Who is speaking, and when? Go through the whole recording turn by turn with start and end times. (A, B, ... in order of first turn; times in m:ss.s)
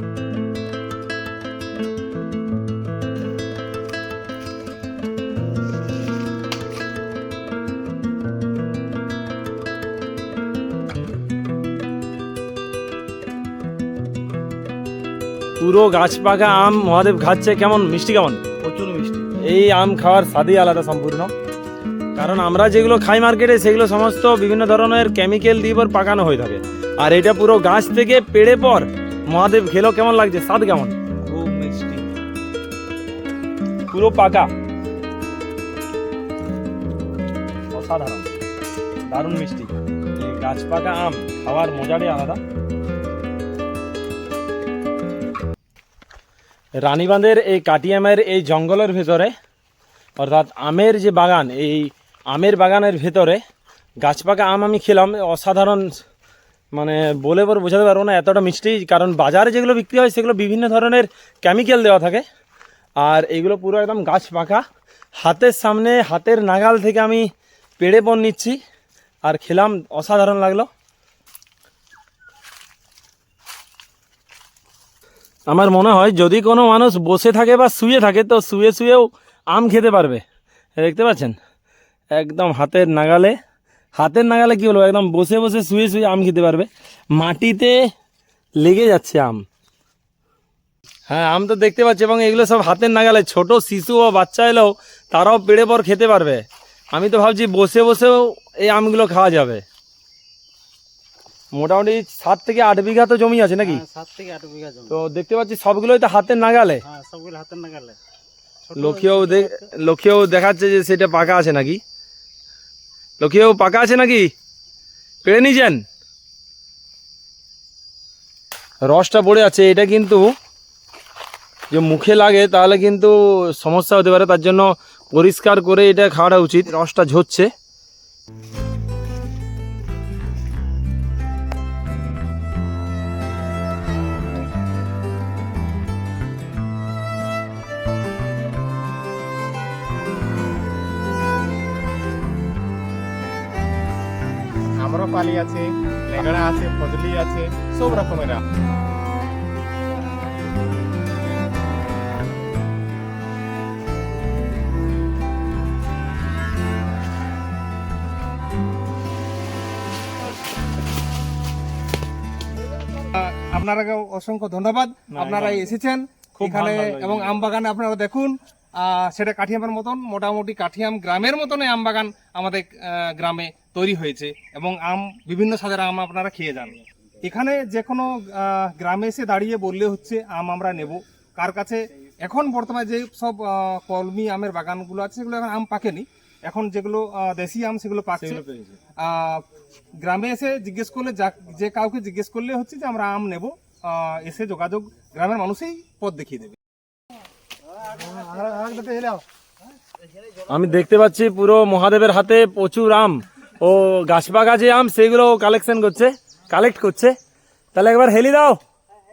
0:15.6-0:21.3 A
0:22.1-0:32.0 A
0:33.9-0:34.5 A
0:37.7-0:38.3 A
0:39.1-0:42.4 A
0:46.8-0:49.3 A
0:50.2-0:53.4 A
0:54.0-0:56.0 A
0:56.7-1:02.2 A
1:03.0-1:04.6 A
1:05.2-1:07.3 A
1:07.8-1:08.6 A
1:09.2-1:10.7 A
1:15.5-1:20.2 A
1:20.8-1:21.4 A
1:22.1-1:23.3 A
1:23.9-1:27.8 A
1:28.6-1:29.4 A
1:31.1-1:39.6 A
1:41.5-1:43.8 A
1:43.6-1:45.0 B
1:44.9-1:46.8 A
1:46.8-1:48.0 B
1:48.7-1:49.6 B
1:48.8-1:51.8 A
1:53.2-1:54.3 A
1:55.2-1:55.8 A
1:58.9-2:00.3 A
2:01.7-2:07.5 A
2:24.8-2:28.4 C
2:43.1-3:08.4 C
2:45.1-2:45.8 A
2:46.4-2:47.4 A
3:08.2-3:08.8 A
3:09.0-3:09.4 C
3:10.0-3:16.6 C
3:17.9-3:19.2 B
3:20.5-3:27.2 A
3:27.7-3:28.6 A